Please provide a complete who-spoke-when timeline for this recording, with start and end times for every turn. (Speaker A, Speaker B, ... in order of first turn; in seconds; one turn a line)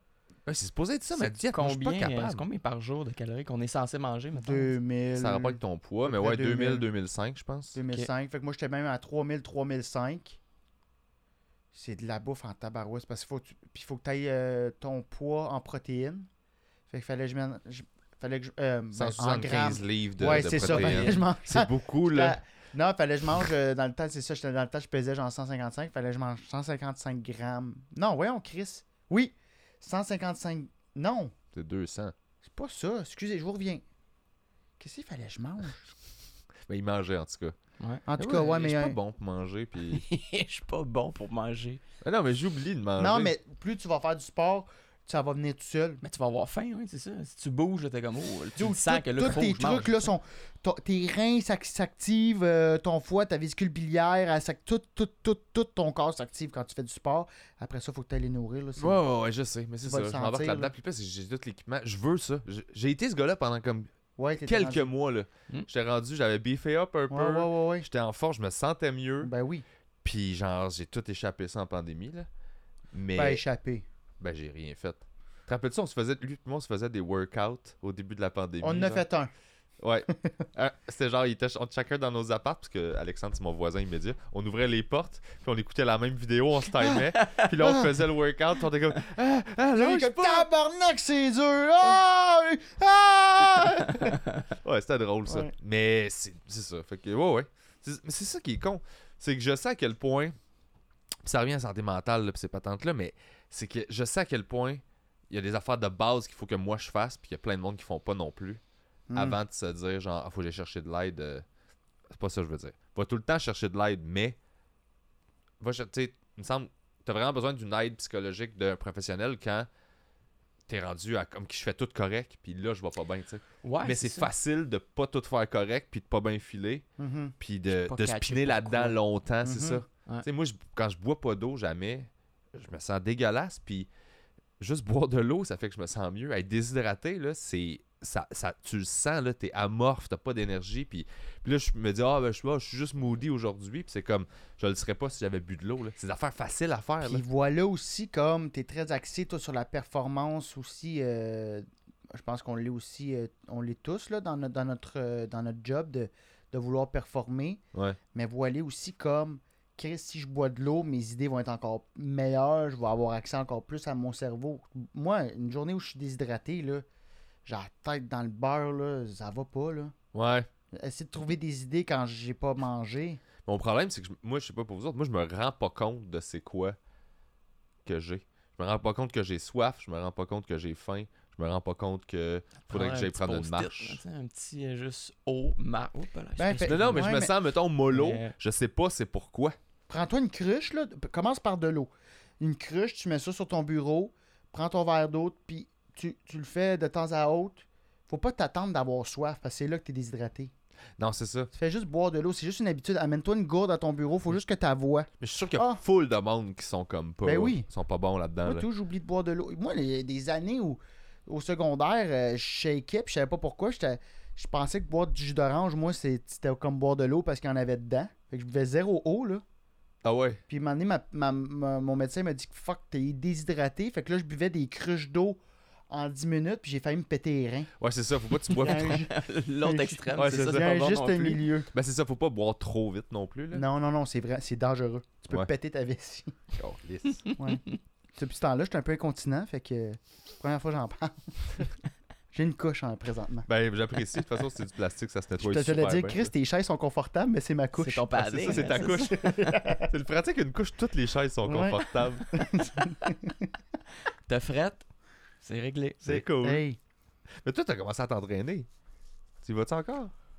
Speaker A: 0.5-2.5
Speaker B: 1.1-4.7
Speaker C: 4.3-6.9
Speaker A: 5.1-7.8
Speaker C: 7.7-10.4
Speaker C: 11.7-16.3
Speaker C: 16.9-31.3
Speaker A: 18.9-22.4
Speaker B: 20.5-21.2
Speaker A: 31.5-32.1
Speaker C: 32.4-33.8
Speaker C: 34.8-35.9
Speaker A: 36.7-37.6
Speaker C: 38.1-39.0
Speaker A: 38.2-40.0
Speaker B: 39.9-41.8
Speaker A: 42.0-43.4
Speaker C: 43.0-46.0
Speaker B: 46.0-50.1
Speaker C: 48.6-59.0
Speaker A: 58.8-63.9
Speaker C: 59.8-60.7
Speaker C: 64.2-64.9
Speaker A: 64.4-69.3
Speaker C: 67.1-67.9
Speaker C: 69.2-69.7
Speaker A: 70.0-72.3
Speaker A: 72.9-73.4
Speaker C: 73.2-73.8
Speaker A: 74.2-79.0
Speaker C: 78.6-79.3
Speaker A: 79.8-90.5
Speaker B: 87.2-87.5
Speaker C: 87.6-88.0
Speaker C: 89.8-94.2
Speaker A: 94.6-100.3
Speaker C: 95.3-95.5
Speaker A: 101.2-108.6
Speaker C: 109.1-109.4
Speaker A: 109.2-111.5
Speaker A: 112.1-114.4
Speaker A: 115.6-119.7
Speaker A: 120.7-126.9
Speaker B: 123.6-124.3
Speaker C: 127.0-127.3
Speaker A: 127.4-133.9
Speaker B: 127.7-129.0
Speaker C: 129.4-129.8
Speaker A: 134.6-147.2
Speaker C: 147.0-157.6
Speaker C: 158.1-166.8
Speaker C: 167.5-169.9
Speaker A: 170.1-170.5
Speaker C: 170.7-173.2
Speaker A: 173.4-176.8
Speaker A: 177.8-184.0
Speaker B: 182.7-187.2
Speaker C: 186.4-187.3
Speaker A: 186.6-189.6
Speaker B: 187.9-188.3
Speaker C: 189.9-200.5
Speaker A: 201.0-201.5
Speaker C: 201.5-205.8
Speaker A: 205.2-208.7
Speaker C: 207.2-207.7
Speaker C: 208.4-219.4
Speaker A: 220.0-220.4
Speaker C: 220.5-227.7
Speaker A: 227.8-229.1
Speaker B: 228.5-231.4
Speaker C: 228.5-231.7
Speaker A: 230.2-230.7
Speaker A: 231.7-233.7
Speaker C: 233.5-236.4
Speaker A: 236.6-237.3
Speaker B: 237.2-237.8
Speaker C: 237.4-237.6
Speaker C: 238.2-241.7
Speaker C: 242.3-243.5
Speaker A: 243.5-246.3
Speaker C: 245.4-249.9
Speaker B: 247.8-249.5
Speaker A: 248.2-252.3
Speaker C: 251.4-253.4
Speaker B: 254.3-254.9
Speaker B: 255.4-256.1
Speaker A: 256.0-256.6
Speaker C: 256.1-256.8
Speaker A: 257.4-258.7
Speaker A: 259.4-260.1